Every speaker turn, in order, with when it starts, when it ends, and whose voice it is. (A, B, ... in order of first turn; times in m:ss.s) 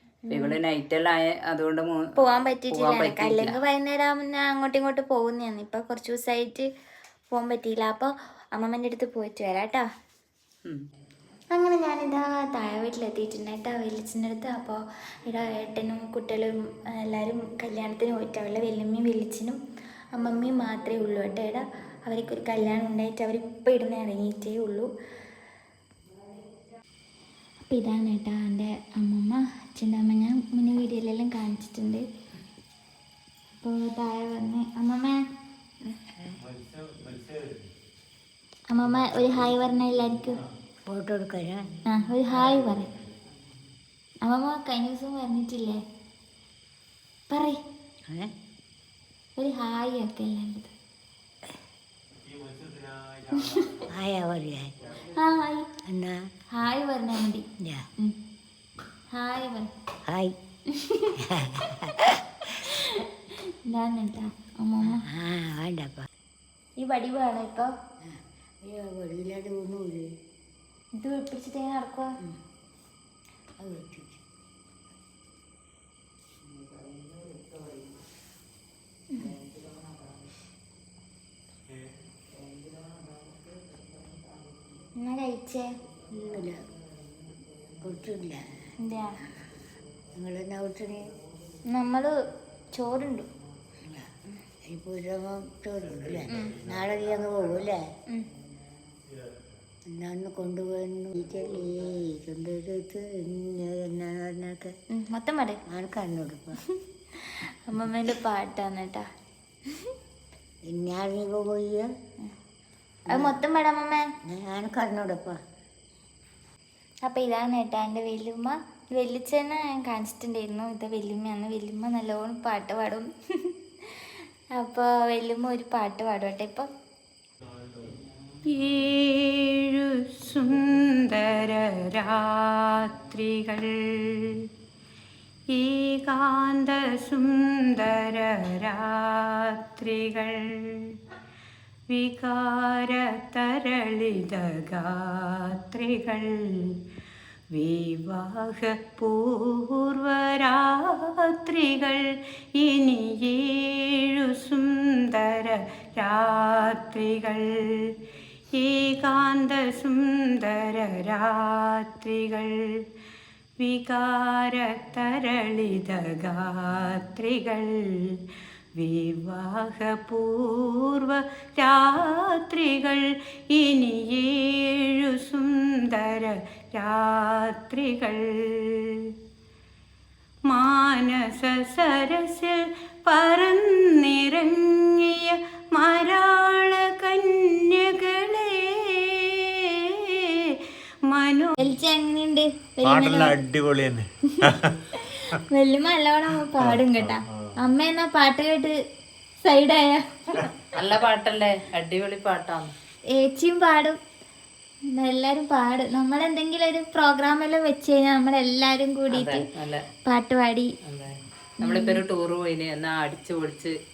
0:00.3-0:00.6 A
0:00.3-0:02.0 B
0:02.2-0:06.7 A
0:02.7-0:03.6 B
0:07.3-0:09.9 A
0:11.5-0:19.6 A
0:20.2-0:24.9 A
0:27.6-0:32.1 A
0:33.6-0:35.2 A
0:36.5-0:37.6 C
0:38.7-0:40.4 A
0:40.9-0:41.7 D
0:41.9-0:42.9 A
0:44.2-0:45.8 A
0:47.3-0:47.6 A
0:49.4-0:50.7 A
0:52.4-0:53.6 C
0:53.3-0:53.8 A
0:53.9-0:54.7 D
0:55.0-0:55.6 A
0:55.9-0:56.3 D
0:56.5-0:57.4 A
0:59.1-0:59.7 A
1:00.1-1:00.3 D
1:00.7-1:01.2 A
1:01.2-1:02.2 D
1:02.6-1:03.1 A
1:03.7-1:05.0 A
1:04.9-1:06.1 D
1:06.8-1:07.7 A
1:08.1-1:10.1 D
1:11.0-1:12.1 A
1:13.6-1:14.2 D
1:25.0-1:25.7 A
1:26.2-1:26.6 D
1:27.8-1:28.4 D
1:28.8-1:29.2 A
1:30.1-1:31.0 D
1:31.7-1:32.1 A
1:32.8-1:33.3 A
1:33.8-1:34.2 D
1:34.7-1:37.8 D
1:39.9-1:44.8 D
1:45.0-1:45.6 A
1:45.7-1:46.6 D
1:47.2-1:49.0 A
1:50.7-1:51.9 D
1:53.1-1:54.0 A
1:54.3-1:55.4 D
1:57.0-2:03.5 A
2:04.6-2:06.7 A
2:08.4-2:14.5 E
2:15.5-2:21.0 E
2:21.9-2:26.9 E
2:27.5-2:38.0 E
2:38.5-2:42.9 E
2:43.6-2:59.2 E
3:00.5-3:11.5 E
3:11.6-3:13.4 A
3:13.0-3:14.1 C
3:14.9-3:18.7 A
3:16.8-3:17.1 C
3:19.4-3:20.4 A
3:20.7-3:22.7 B
3:23.1-3:24.0 A
3:24.9-3:29.5 A
3:29.1-3:29.8 B
3:30.1-3:30.7 A
3:30.9-3:33.8 B
3:31.6-3:32.0 A